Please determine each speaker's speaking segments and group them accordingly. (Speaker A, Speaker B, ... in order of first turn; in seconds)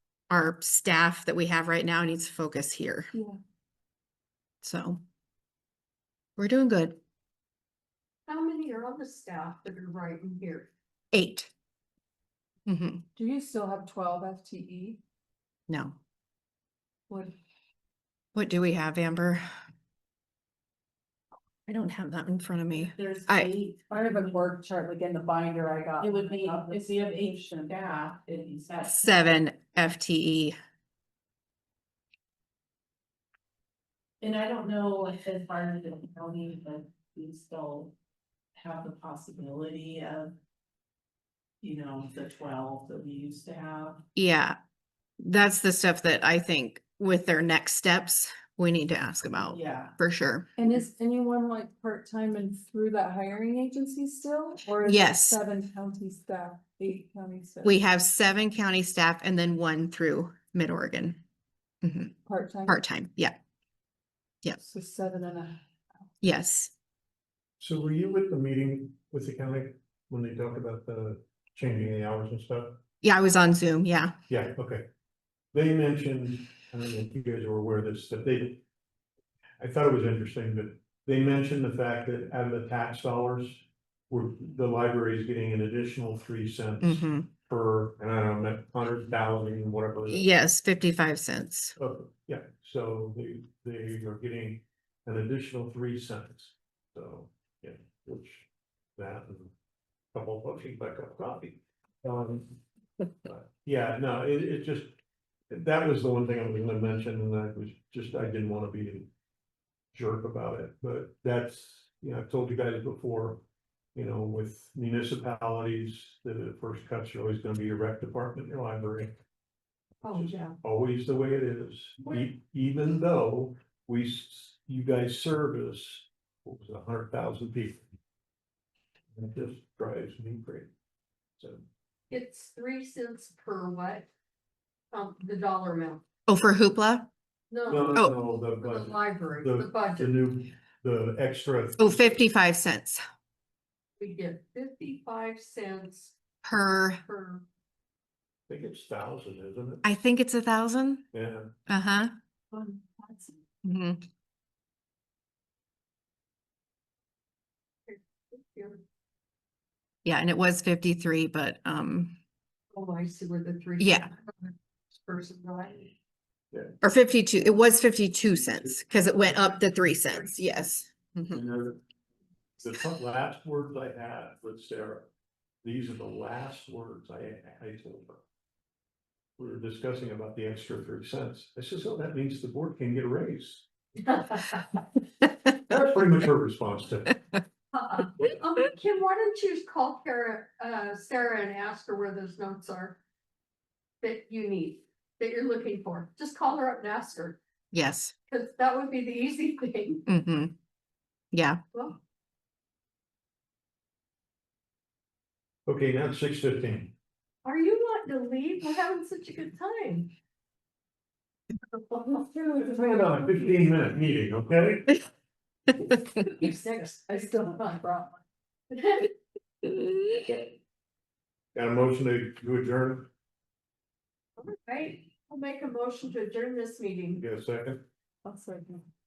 Speaker A: 0.3-3.1, 4.6-5.0, 6.4-7.0, 11.1-11.5, 12.7-13.0, 15.7-16.0, 18.4-19.5, 21.7-23.5, 28.9-30.6, 44.1-44.6, 45.2-50.5, 54.8-55.4, 57.6-61.2, 61.8-63.4, 66.2-66.7, 73.0-74.2, 86.8-87.3, 90.1-91.8, 136.3-137.1, 141.8-143.0, 146.4-147.0, 149.8-151.1, 151.7-152.1, 153.6-154.0, 160.0-162.2, 163.8-164.1, 166.8-171.4, 197.7-198.1, 200.1-200.6, 201.3-201.6
Speaker B: 8.3-10.7, 120.0-120.6, 132.1-134.1, 134.9-136.1, 137.5-140.2, 144.0-146.2, 147.0-147.4, 157.9-158.8, 162.7-165.9, 184.0-184.8, 187.7-193.0, 194.0-197.4, 198.3-200.1, 201.7-202.0, 207.4-210.1, 211.9-212.3, 215.9-218.1, 218.7-219.1, 219.6-220.5, 224.4-227.2
Speaker C: 13.2-15.0, 23.9-26.8, 50.6-57.8, 62.3-62.8, 64.6-65.6, 152.5-153.4, 212.1-212.6, 216.6-218.0, 228.2-228.9
Speaker D: 22.8-24.6, 26.0-29.2, 34.2-38.0, 38.5-40.4, 41.6-44.0, 49.4-50.0
Speaker E: 67.6-72.8, 74.3-74.8, 75.5-78.6, 79.6-90.3, 91.8-99.5, 100.1-102.6, 103.2-104.9, 105.5-109.1, 109.9-113.4, 114.0-119.1, 120.1-127.8, 129.2-130.7, 131.4-131.6, 137.7-142.2, 148.5-149.8, 151.1-151.5, 171.3-171.8, 172.6-175.1, 175.6-178.2, 179.4-183.7, 185.5-187.2, 205.7-206.9, 212.5-215.0, 221.5-223.1, 227.2-227.8